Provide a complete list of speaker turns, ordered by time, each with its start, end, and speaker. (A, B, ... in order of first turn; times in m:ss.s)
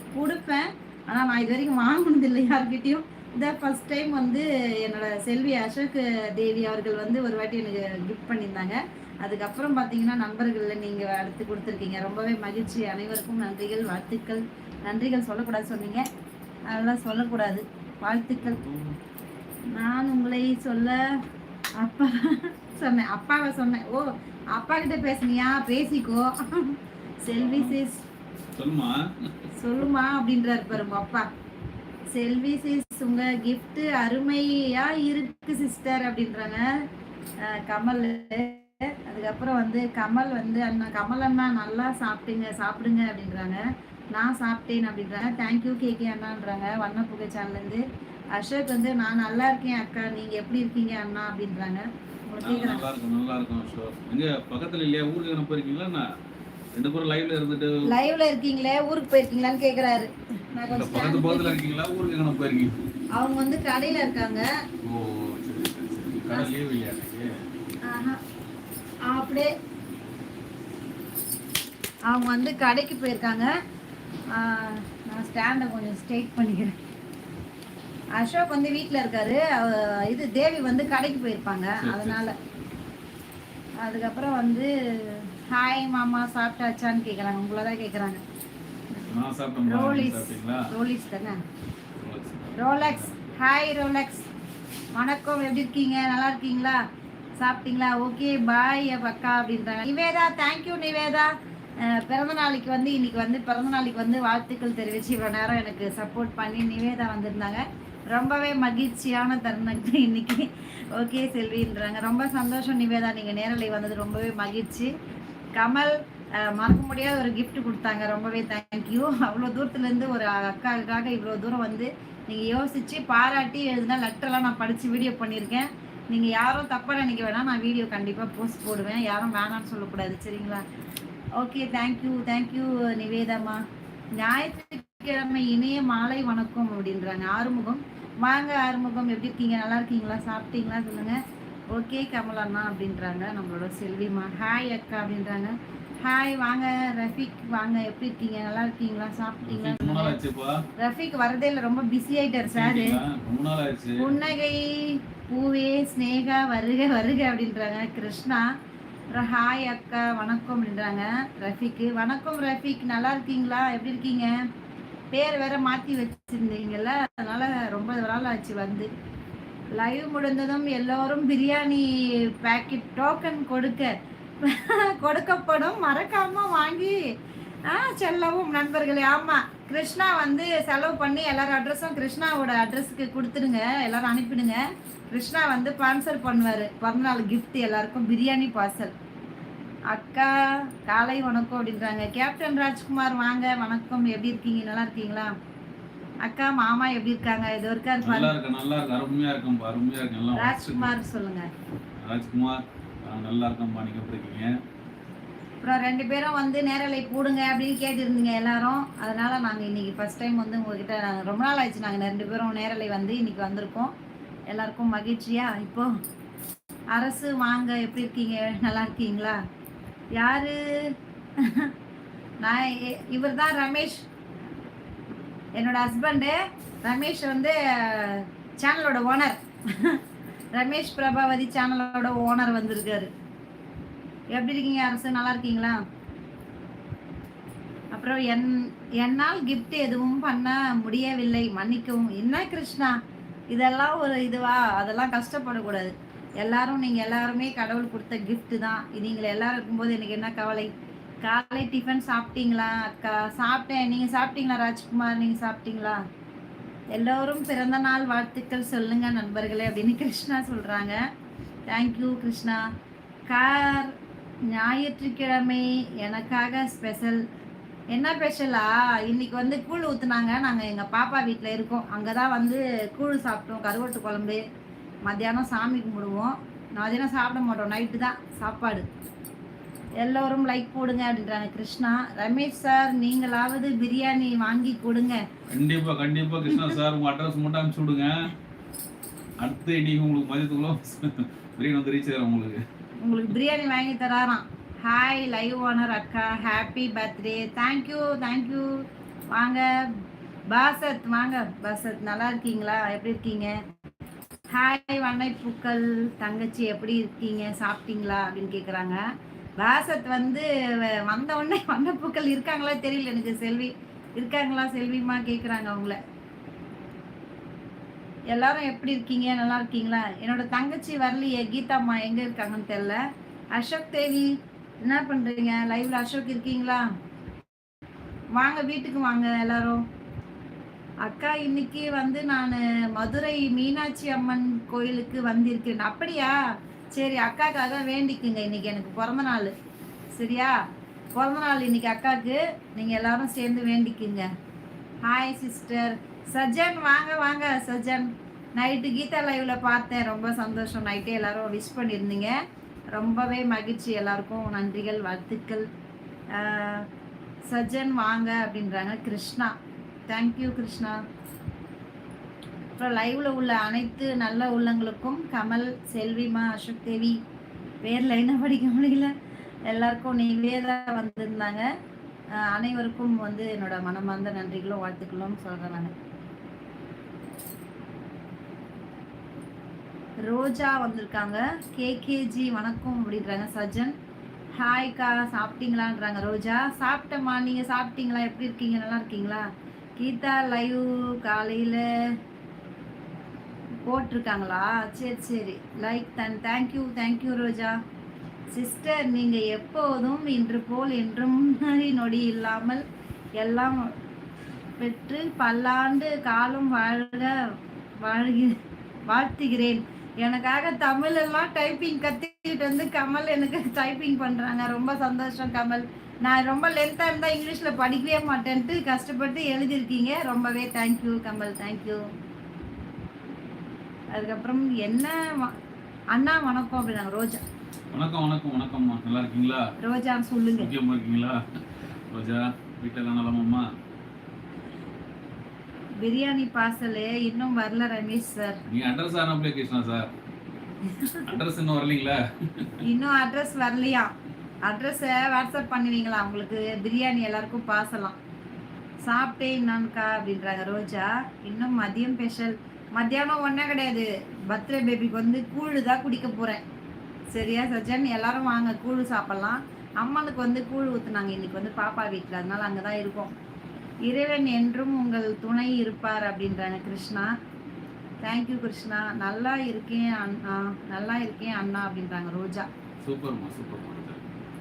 0:00.1-0:16.0 A
0:16.7-0:18.6 A
0:18.4-0:19.0 B
0:19.7-0:21.0 A
0:21.8-0:28.0 A
0:27.3-0:27.8 B
0:28.5-0:29.3 B
0:29.6-0:31.3 A
0:32.1-0:36.7 A
0:37.4-0:52.8 A
0:52.4-0:56.1 B
0:56.7-0:57.8 B
0:57.8-1:01.6 A
1:00.7-1:02.7 B
1:03.2-1:04.5 A
1:04.8-1:07.5 B
1:07.8-1:08.2 A
1:09.0-1:09.5 A
1:12.1-1:13.5 A
1:14.3-1:16.8 A
1:18.1-1:22.3 A
1:21.8-1:22.3 B
1:23.8-1:28.2 A
1:29.0-1:30.7 B
1:29.6-1:31.4 A
1:32.0-1:33.3 B
1:32.6-1:34.3 A
1:34.9-1:36.8 A
1:37.4-1:54.9 A
1:55.5-2:10.6 A
2:11.4-2:13.6 A
2:14.2-2:21.2 A
2:21.7-2:30.2 A
2:29.4-2:30.6 B
2:30.8-2:33.0 A
2:32.4-2:34.1 B
2:34.0-2:38.5 A
2:39.1-2:44.3 A
2:45.1-2:48.9 A
2:49.7-2:57.0 A
2:57.7-3:08.9 A
3:09.9-3:15.3 A
3:16.2-3:18.3 A
3:18.0-3:21.0 B
3:20.3-3:21.5 A
3:22.0-3:24.5 B
3:25.6-3:33.9 A
3:34.5-3:35.9 A
3:36.9-3:39.4 A
3:40.1-3:41.7 A
3:42.4-3:44.0 A
3:45.5-3:50.0 A
3:50.5-3:53.1 A
3:54.3-3:55.8 A
3:57.9-4:03.0 A
4:03.5-4:10.7 A
4:11.2-4:16.0 A
4:16.9-4:21.0 A
4:21.7-4:22.6 A
4:23.3-4:23.9 A
4:24.5-4:27.2 A
4:27.9-4:34.4 A
4:35.0-4:38.9 A
4:40.0-4:45.2 A
4:45.5-4:48.3 B
4:49.4-4:52.6 B
4:53.0-4:59.8 A
5:00.5-5:03.5 A
5:04.5-5:09.0 A
5:09.6-5:16.0 A
5:18.3-5:23.0 A
5:23.5-5:24.3 A
5:24.8-5:26.8 A
5:28.3-5:29.8 A
5:31.0-5:36.4 A
5:36.9-5:39.5 A
5:40.1-5:40.6 A
5:41.2-5:44.3 A
5:45.0-5:52.3 A
5:52.9-5:55.6 A
5:56.3-5:56.9 A
5:57.5-5:59.5 A
6:00.1-6:01.0 A
6:02.8-6:07.2 A
6:07.8-6:09.1 A
6:09.7-6:11.7 A
6:12.3-6:15.9 A
6:20.2-6:23.9 A
6:24.6-6:32.1 A
6:33.8-6:37.8 A
6:38.5-6:42.8 A
6:43.4-6:43.9 A
6:44.8-6:48.5 A
6:49.1-7:02.0 A
7:04.1-7:05.6 A
7:06.1-7:07.4 A
7:07.9-7:09.7 B
7:09.8-7:10.7 A
7:10.6-7:11.4 B
7:12.1-7:13.6 B
7:16.0-7:18.6 A
7:18.7-7:20.1 B
7:20.9-7:21.3 A
7:21.2-7:22.8 B
7:22.8-7:24.1 A
7:24.6-7:28.2 A
7:29.0-7:36.6 A
7:37.3-7:43.3 A
7:44.0-7:47.3 A
7:48.2-7:52.7 A
7:53.0-7:54.4 B